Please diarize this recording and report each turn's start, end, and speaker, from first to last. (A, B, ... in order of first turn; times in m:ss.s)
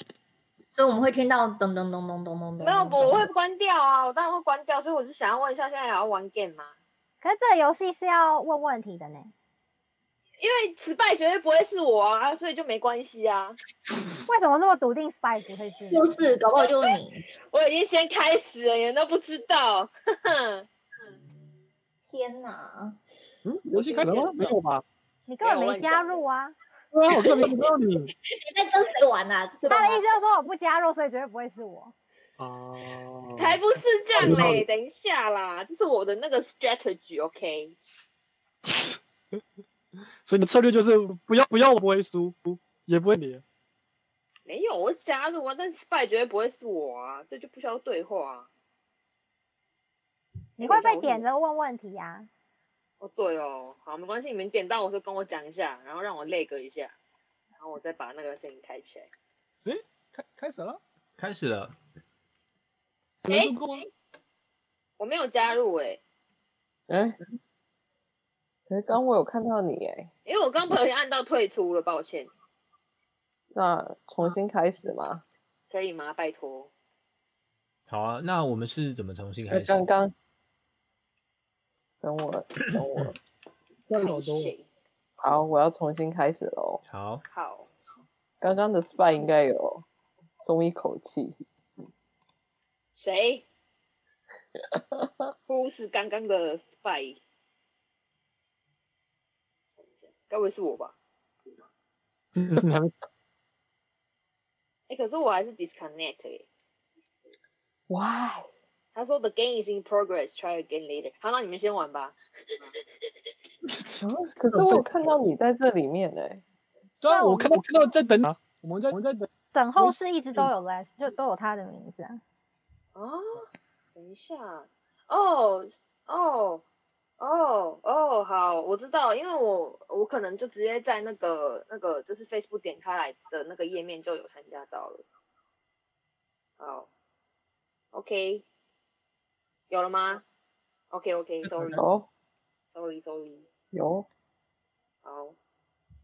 0:00.8-0:03.3 A
0:02.6-0:06.7 B
0:07.2-0:09.3 C
0:10.4-0:13.6 B
0:14.3-0:16.1 C
0:15.9-0:17.2 A
0:16.6-0:16.9 B
0:17.5-0:20.7 B
0:22.0-0:23.0 A
0:23.4-0:24.8 D
0:23.7-0:24.5 B
0:25.3-0:26.6 C
0:25.4-0:26.2 B
0:26.9-0:28.1 D
0:28.2-0:30.0 A
0:29.7-0:31.9 C
0:32.4-0:33.6 D
0:33.4-0:37.8 B
0:34.2-0:34.7 D
0:38.7-0:39.0 D
0:40.2-0:43.4 D
0:44.5-0:48.5 B
0:50.6-0:52.3 C
0:50.6-0:51.2 B
0:53.0-0:57.0 B
0:57.6-0:59.1 B
0:59.6-1:00.8 D
1:01.2-1:01.8 E
1:03.2-1:03.9 D
1:03.3-1:03.8 B
1:05.0-1:06.0 B
1:06.9-1:07.2 F
1:08.7-1:10.1 F
1:10.3-1:12.3 B
1:13.5-1:15.2 F
1:15.7-1:16.7 B
1:17.9-1:19.8 E
1:19.5-1:20.1 F
1:22.0-1:23.2 F
1:23.9-1:24.5 D
1:24.0-1:24.7 B
1:25.2-1:26.8 F
1:26.9-1:27.2 E
1:27.3-1:27.7 B
1:28.4-1:29.8 F
1:30.4-1:31.4 F
1:33.0-1:33.4 B
1:34.6-1:35.1 F
1:35.5-1:37.2 B
1:40.1-1:41.0 B
1:42.4-1:42.9 D
1:44.9-1:46.5 B
1:47.9-1:48.5 F
1:49.0-1:52.2 B
1:53.8-1:54.9 D
1:54.0-1:56.4 F
1:57.0-2:00.5 D
1:57.1-1:57.7 C
1:59.5-2:02.2 C
2:03.0-2:06.6 B
2:07.2-2:15.0 B
2:16.6-2:16.9 B
2:17.9-2:18.4 B
2:19.7-2:20.2 B
2:20.9-2:21.8 B
2:21.4-2:21.8 D
2:21.8-2:22.1 F
2:22.7-2:23.5 B
2:23.7-2:24.1 F
2:25.0-2:25.4 B